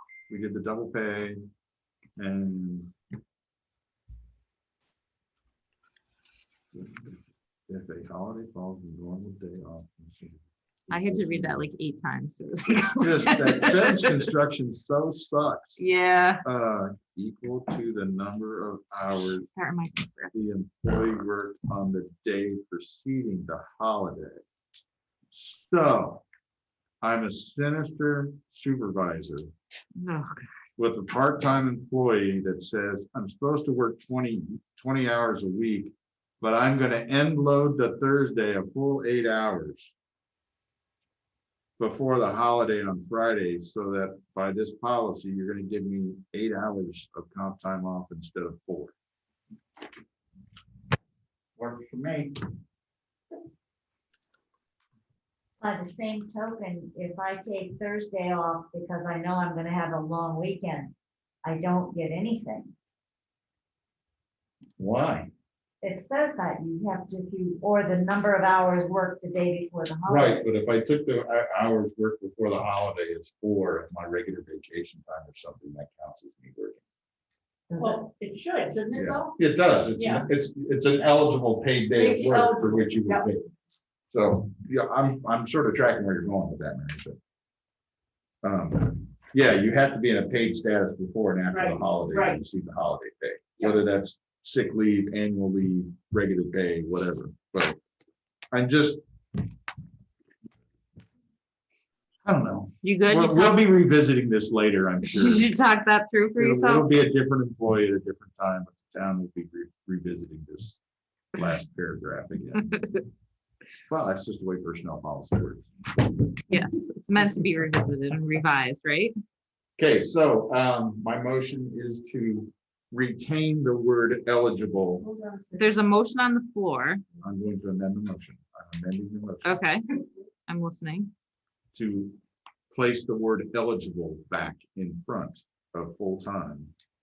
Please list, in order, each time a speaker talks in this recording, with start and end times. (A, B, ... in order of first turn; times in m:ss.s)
0:00.3-0:01.4 A
0:02.2-0:02.9 A
0:06.7-0:11.7 A
0:10.9-0:14.2 B
0:13.0-0:15.8 A
0:15.8-0:16.4 B
0:16.4-0:19.5 A
0:19.6-0:20.4 B
0:20.3-0:24.4 A
0:25.3-0:26.2 A
0:27.0-0:29.5 A
0:30.0-0:30.4 B
0:30.8-0:39.9 A
0:41.8-0:48.9 A
0:51.6-0:52.4 A
0:55.6-1:02.7 C
1:04.8-1:05.3 A
1:05.8-1:10.4 C
1:10.1-1:16.8 A
1:17.7-1:18.0 C
1:17.8-1:19.4 D
1:18.9-1:23.5 A
1:20.0-1:20.3 D
1:22.0-1:23.3 D
1:24.1-1:27.2 A
1:28.4-1:37.8 A
1:31.5-1:32.4 D
1:38.5-1:39.0 A
1:42.2-1:45.5 A
1:42.8-1:43.6 B
1:45.0-1:46.9 B
1:46.4-1:50.8 A
1:51.4-1:52.6 A
1:52.6-1:53.0 B
1:53.9-1:56.1 A
1:56.5-1:59.1 B
1:59.8-2:05.1 A
2:05.6-2:07.0 B
2:07.2-2:09.6 A
2:09.4-2:09.8 B
2:10.5-2:11.1 B
2:11.7-2:12.2 A
2:12.7-2:16.7 A